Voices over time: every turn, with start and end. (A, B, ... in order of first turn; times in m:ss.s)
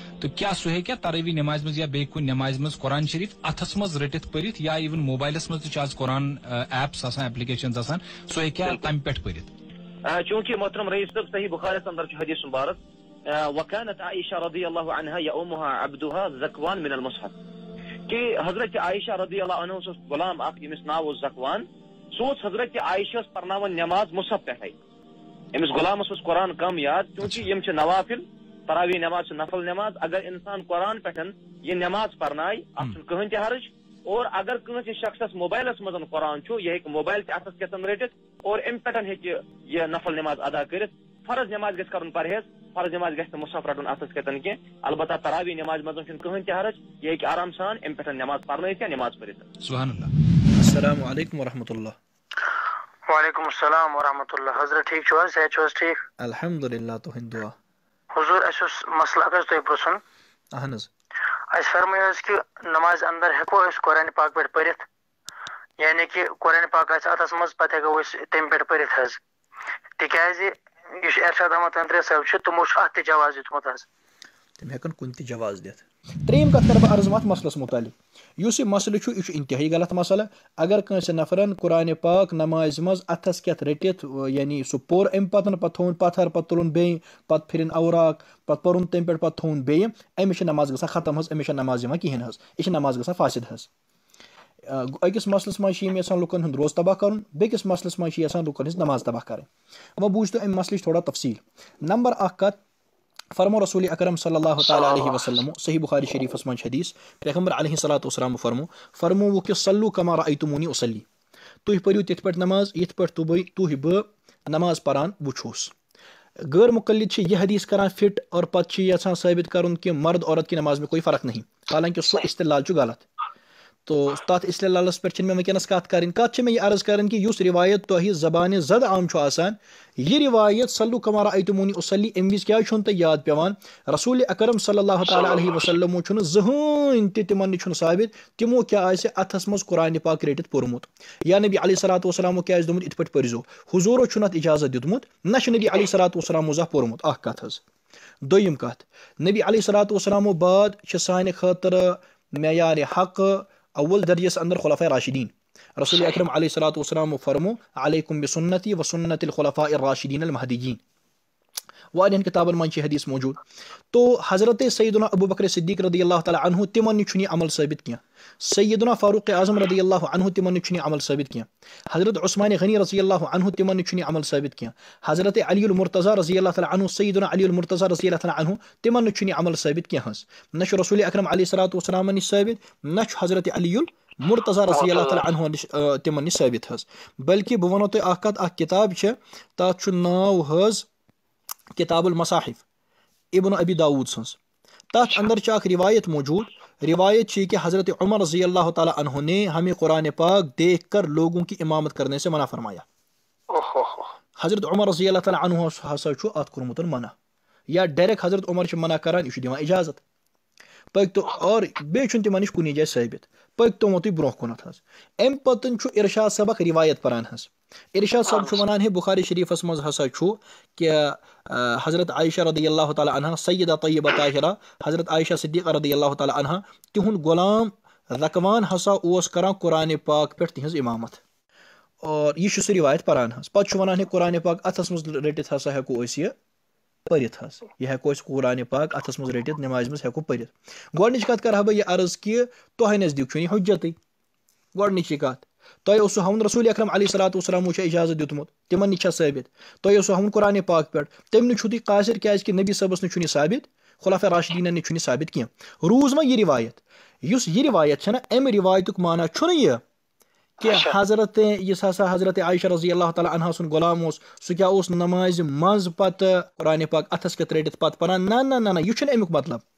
0:00.2-0:09.5 A
0:10.1-0:12.8 B
0:13.5-0:17.3 B
0:18.1-0:21.6 B
0:22.2-0:24.7 B
0:25.6-0:49.5 B
0:49.6-0:50.1 A
0:50.6-0:52.0 C
0:53.1-0:56.0 D
0:56.2-0:57.5 C
0:58.1-1:00.0 D
1:00.5-1:00.9 C
1:01.5-1:04.8 D
1:05.8-1:09.2 D
1:10.0-1:13.9 D
1:14.6-1:33.7 C
1:34.7-1:42.6 C
1:43.4-1:51.1 C
1:51.6-1:55.7 C
1:56.5-2:03.0 C
2:03.9-2:27.6 C
2:28.2-2:40.8 C
2:41.9-2:43.4 C
2:43.9-3:10.9 C
3:11.8-3:12.6 C
3:13.3-3:14.4 C
3:14.9-3:22.8 C
3:23.6-3:24.1 D
3:24.4-3:27.1 C
3:27.7-3:30.0 C
3:30.9-3:51.2 C
3:52.0-3:56.3 C
3:57.1-4:04.0 C
4:04.8-4:19.8 C
4:20.6-4:29.6 C